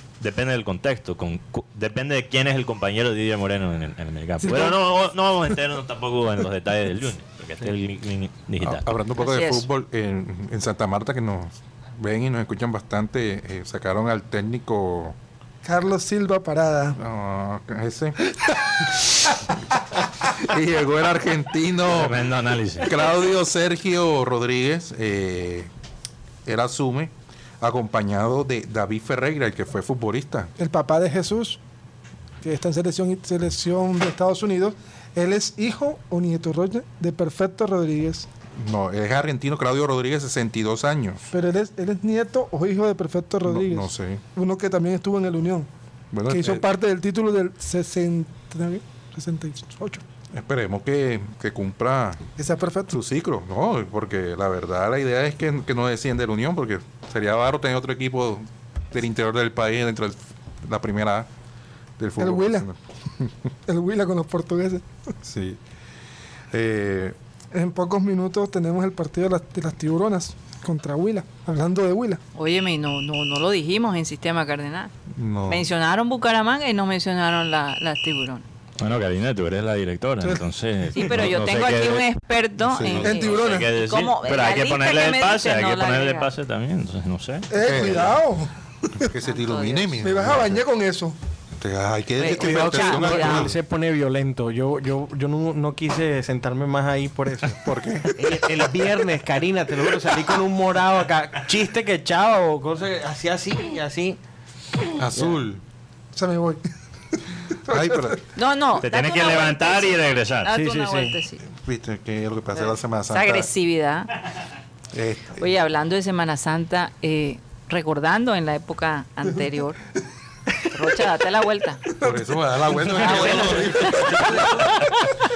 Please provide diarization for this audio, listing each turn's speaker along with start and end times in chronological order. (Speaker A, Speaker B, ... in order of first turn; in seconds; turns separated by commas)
Speaker A: 0.2-8.9, Speaker B: 4.4-4.8, Speaker C: 8.6-15.2, Speaker D: 9.2-9.7, Speaker B: 15.7-17.0, Speaker C: 17.0-18.2, Speaker C: 20.3-22.2, Speaker A: 21.9-22.9, Speaker C: 22.8-25.7, Speaker C: 26.5-30.5, Speaker B: 30.6-31.6, Speaker B: 32.4-38.3, Speaker C: 38.5-41.2, Speaker B: 41.3-45.7, Speaker C: 43.5-44.2, Speaker C: 46.1-46.6, Speaker B: 46.3-50.0, Speaker C: 50.3-52.3, Speaker B: 52.4-52.9, Speaker C: 52.9-61.3, Speaker C: 62.0-63.3, Speaker B: 62.2-62.7, Speaker B: 63.7-64.9, Speaker C: 65.2-65.6, Speaker C: 66.5-67.2, Speaker B: 67.5-72.2, Speaker D: 72.3-74.9, Speaker C: 75.1-75.7, Speaker D: 75.5-78.4, Speaker A: 78.8-82.1, Speaker D: 81.0-86.3, Speaker C: 82.7-83.3, Speaker A: 82.7-87.9, Speaker B: 83.0-83.7, Speaker B: 87.5-88.5, Speaker C: 87.6-88.2, Speaker C: 89.0-90.6, Speaker D: 89.2-89.9, Speaker B: 90.0-91.2, Speaker C: 91.6-93.6, Speaker D: 92.2-93.5, Speaker E: 92.3-97.6, Speaker C: 97.6-98.7, Speaker E: 98.1-104.2, Speaker C: 105.0-105.6, Speaker B: 106.2-106.6, Speaker B: 107.2-108.2, Speaker C: 107.7-108.2, Speaker D: 108.3-111.4, Speaker A: 108.8-110.5, Speaker E: 110.5-111.2, Speaker C: 111.5-113.5, Speaker D: 113.1-114.1, Speaker C: 114.9-115.5, Speaker D: 115.4-119.8, Speaker D: 120.7-121.8, Speaker C: 122.0-124.8, Speaker D: 123.0-124.3